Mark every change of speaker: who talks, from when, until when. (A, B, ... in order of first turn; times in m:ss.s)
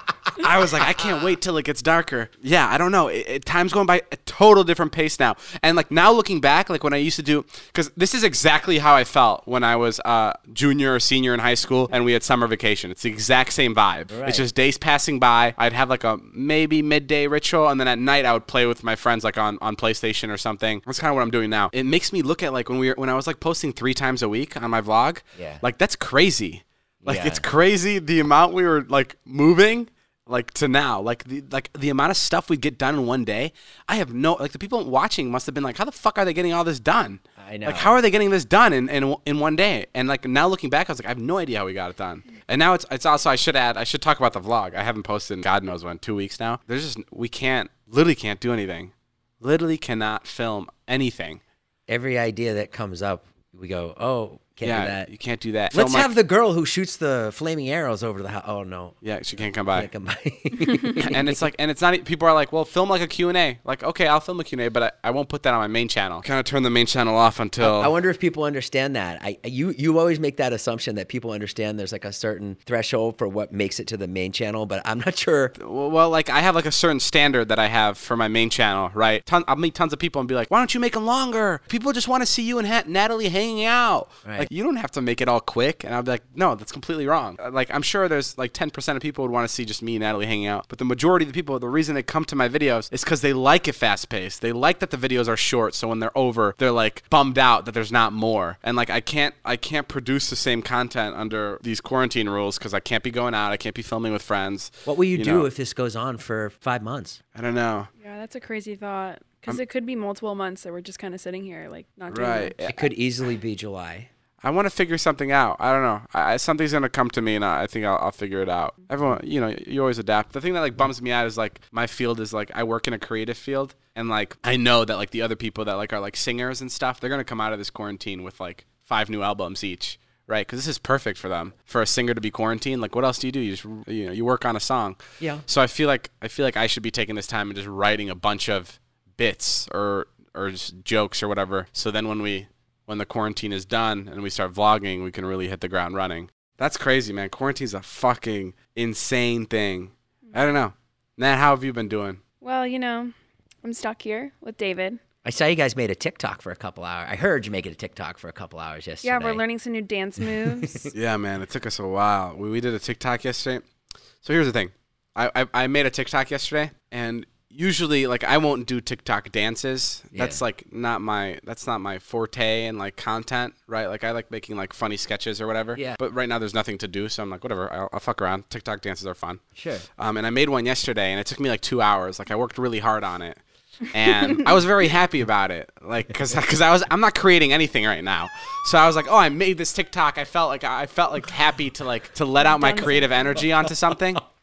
0:00.4-0:51.4 A
0:14.1-0:14.4 B
0:25.4-0:25.6 B
0:27.0-0:27.4 B
0:37.4-0:38.0 B
0:51.9-0:55.1 B
0:54.6-0:56.1 A
0:55.7-1:01.5 B
0:59.0-0:59.9 A
1:01.0-1:07.9 A
1:07.6-1:15.5 B
1:15.6-1:45.5 A
1:24.2-1:24.5 B
1:44.9-1:47.2 B
1:47.4-1:47.9 A
1:48.0-1:52.6 C
1:52.1-1:52.9 A
1:52.7-1:54.1 B
1:54.4-2:32.2 A
2:30.3-2:30.6 C
2:32.4-2:35.0 C
2:35.2-2:39.4 B
2:39.0-2:40.9 C
2:40.9-2:43.6 A
2:44.2-2:59.4 A
2:50.1-2:50.4 B
2:55.8-2:56.0 B
2:59.6-2:59.9 B
3:00.0-3:03.4 A
3:03.9-3:14.2 A
3:12.4-3:13.4 C
3:13.3-3:14.2 B